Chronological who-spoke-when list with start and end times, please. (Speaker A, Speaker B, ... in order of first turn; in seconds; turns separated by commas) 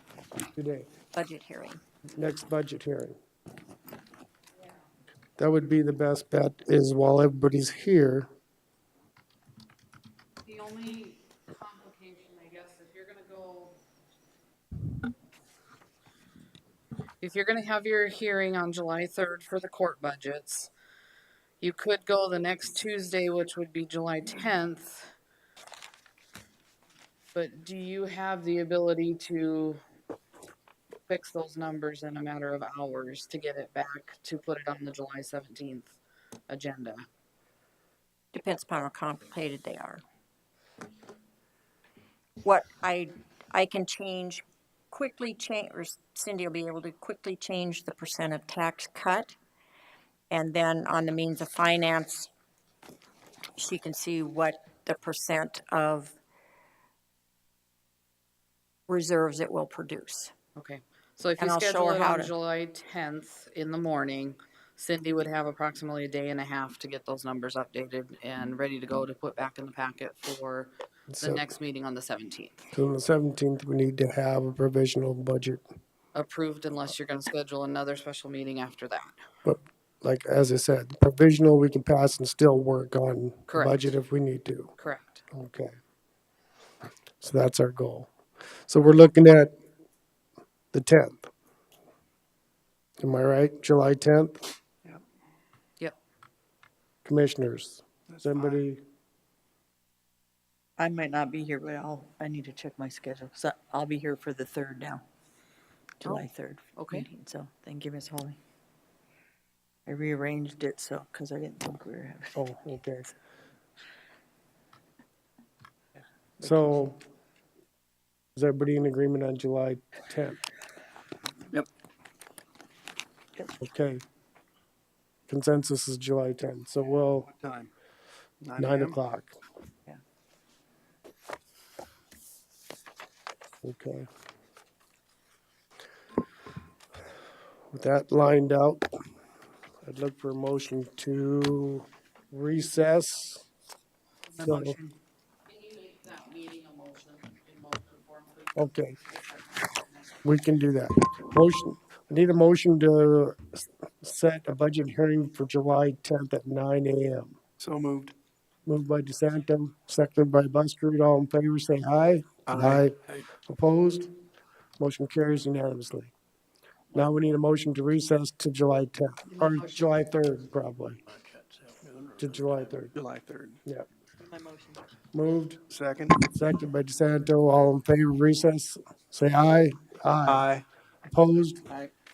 Speaker A: 0.6-0.9, Speaker B: 1.1-1.8, Speaker A: 2.1-3.1, Speaker A: 5.4-8.3, Speaker C: 10.4-13.8, Speaker C: 17.2-20.7, Speaker C: 21.6-25.1, Speaker C: 27.3-29.8, Speaker C: 31.1-36.0, Speaker C: 36.5-37.0, Speaker B: 38.3-40.0, Speaker B: 42.4-49.4, Speaker B: 50.3-52.3, Speaker B: 53.6-56.1, Speaker B: 58.9-60.3, Speaker C: 60.5-72.6, Speaker B: 61.4-62.3, Speaker A: 71.1-71.5, Speaker A: 72.7-75.6, Speaker C: 76.1-79.2, Speaker A: 79.4-84.7, Speaker C: 83.5-83.9, Speaker C: 84.8-85.2, Speaker A: 85.3-85.7, Speaker A: 87.2-88.1, Speaker A: 88.7-89.5, Speaker A: 90.7-91.3, Speaker A: 93.0-94.4, Speaker A: 97.0-98.8, Speaker D: 98.1-98.6, Speaker E: 100.8-105.0, Speaker E: 106.0-108.4, Speaker C: 106.0-107.1, Speaker E: 109.8-112.4, Speaker A: 112.3-113.1, Speaker A: 116.4-117.0, Speaker A: 118.3-120.4, Speaker A: 123.6-124.0, Speaker A: 125.3-127.3, Speaker D: 127.3-127.7, Speaker D: 128.4-129.0, Speaker A: 128.6-129.3, Speaker A: 133.6-134.1, Speaker A: 137.7-138.8, Speaker A: 139.8-143.4, Speaker C: 144.3-144.9, Speaker A: 144.4-144.8, Speaker C: 145.5-150.2, Speaker A: 148.6-149.0, Speaker A: 150.2-157.4, Speaker D: 157.6-158.1, Speaker A: 158.7-164.1, Speaker D: 162.5-163.3, Speaker A: 164.8-166.1, Speaker A: 166.9-171.0, Speaker E: 169.4-169.7, Speaker D: 171.1-173.6, Speaker A: 172.2-172.9, Speaker E: 174.2-174.8, Speaker A: 175.1-175.6, Speaker D: 175.7-176.3, Speaker A: 176.3-180.5, Speaker D: 180.2-180.7, Speaker A: 181.1-181.6